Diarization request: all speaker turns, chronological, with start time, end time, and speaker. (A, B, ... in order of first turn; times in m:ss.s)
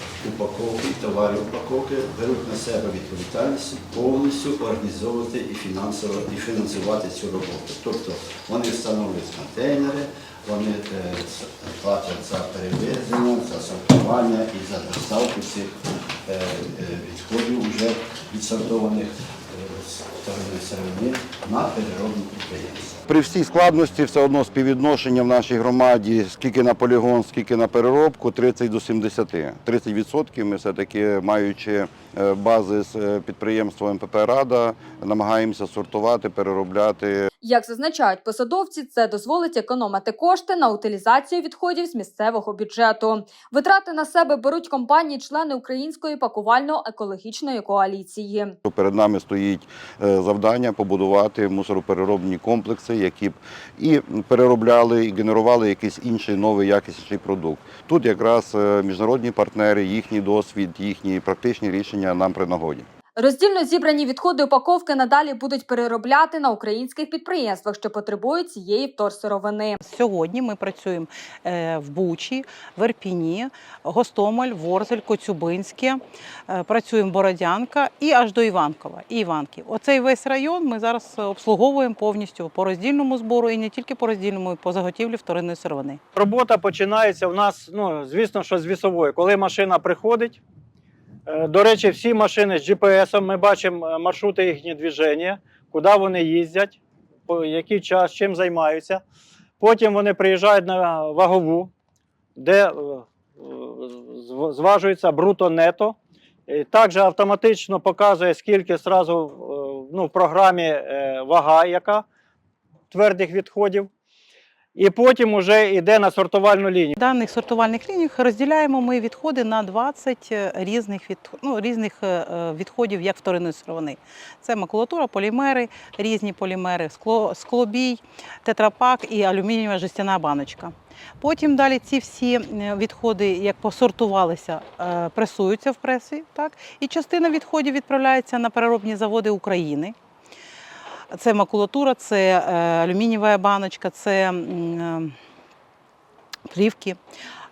0:00.2-0:23.0 A
0:23.1-0:37.3 B
0:37.4-0:48.6 C
0:48.6-1:02.8 B
1:03.2-1:09.8 C
1:09.8-1:26.0 D
1:26.1-1:30.4 E
1:31.3-1:39.0 E
1:39.6-1:41.7 E
1:42.4-1:46.0 E
1:46.5-1:52.0 E
1:52.9-1:53.9 E
1:54.7-1:56.9 E
1:57.0-2:19.9 D
2:21.1-2:25.1 D
2:26.5-2:27.0 D